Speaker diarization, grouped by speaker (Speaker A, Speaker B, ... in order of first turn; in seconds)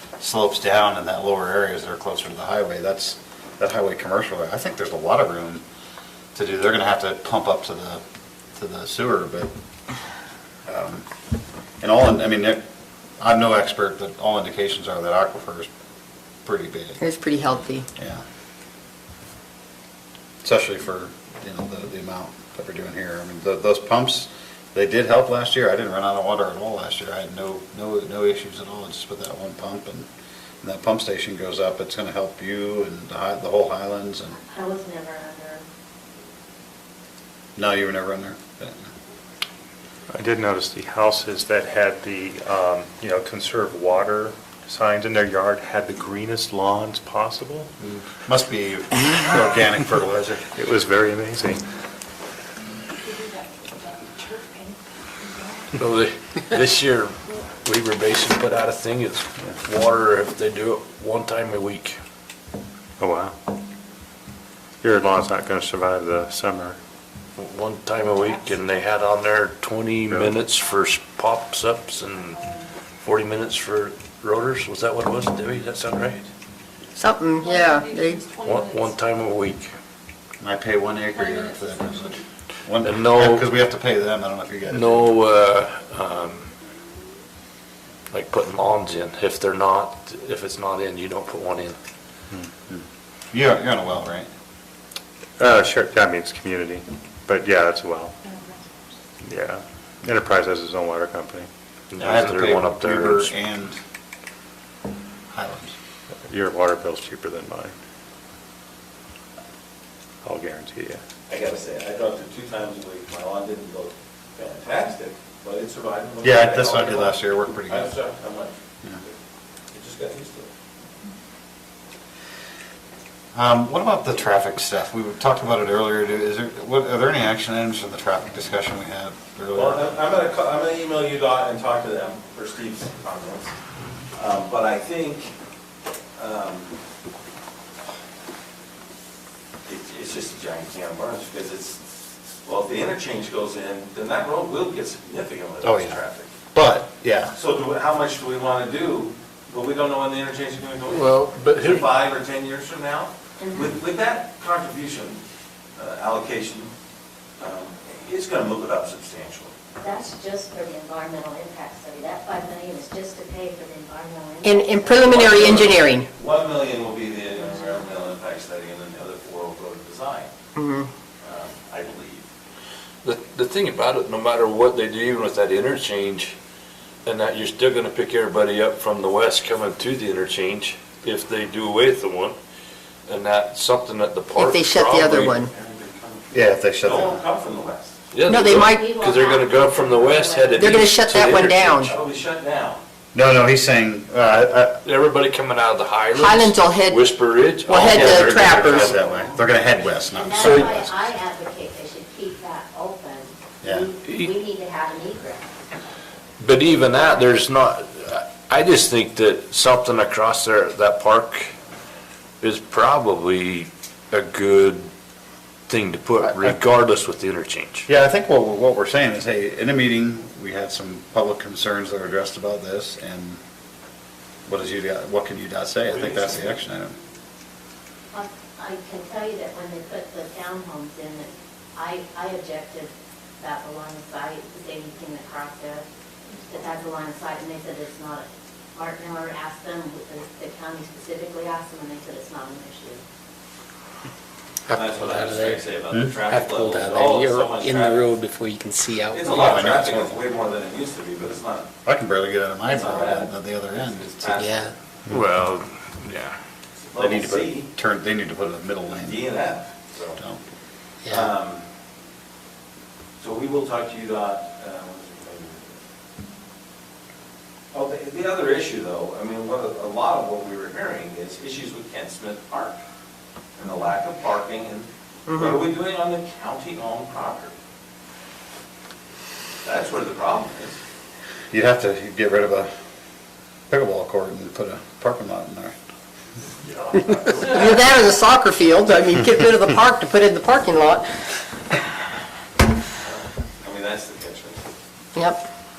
Speaker A: 0.2-5.6, 6.3-8.0, 8.6-9.5, 10.7-11.1, 11.8-12.6, 13.2-15.7, 16.4-17.0, 18.0-18.2, 20.4-30.1, 30.6-34.4, 37.6-38.8, 47.8-50.5, 80.4-85.2, 92.7-94.3, 102.0-103.8, 105.3-105.7, 116.2-117.9, 123.3-129.9, 145.6-146.0, 146.5-147.3, 186.3-187.2, 193.1-194.8, 197.7-201.0, 203.6-203.9, 217.9-223.4, 224.5-226.9, 249.3-250.2, 251.8-254.5, 257.7-259.2, 281.5-282.7, 283.7-285.8
Speaker B: 17.0-17.9, 77.0-78.2, 164.4-166.1, 170.6-170.9, 184.4-185.5, 188.3-188.9, 190.6-191.9, 196.1-197.0, 197.7-198.9, 275.3-275.6, 287.4-291.1, 295.1-295.5
Speaker C: 34.5-35.7, 53.1-54.8, 77.4-78.8, 81.2-81.9, 153.4-153.8, 159.8-165.4, 188.7-190.7, 199.8-205.5, 228.1-243.0
Speaker D: 40.1-47.7, 50.5-51.6, 63.0-63.4, 64.8-66.8, 70.1-70.3, 95.4-98.2, 99.2-101.5, 106.3-107.7, 110.2-111.0
Speaker E: 55.8-62.0, 67.4-72.4, 73.0-76.3, 78.4-79.8, 82.8-83.5, 84.7-86.5, 88.1-91.8, 101.9-103.3, 150.9-151.9, 173.0-176.4, 177.1-182.4, 183.1-185.4, 188.1-192.0, 194.8-199.4, 200.4-200.7, 206.4-211.5, 212.4-214.9, 215.7-217.9, 225.9-226.6, 255.1-256.4, 257.0-257.4
Speaker F: 111.3-119.2, 119.7-120.5, 129.5-133.5, 134.2-135.3, 136.2-136.8, 139.7-141.8, 142.4-146.3, 147.3-155.2, 155.8-156.7, 157.4-159.5, 165.1-170.3, 171.2-172.3, 185.4-188.0, 191.8-192.8, 244.7-248.2, 249.1-251.7, 252.7-254.6, 256.9-257.7, 258.9-260.2, 261.1-261.6, 263.2-265.8, 267.7-272.8, 273.6-277.5, 279.6-280.8, 286.8-288.0, 293.0-294.6
Speaker G: 244.7-249.6, 254.4-254.7, 261.0-261.3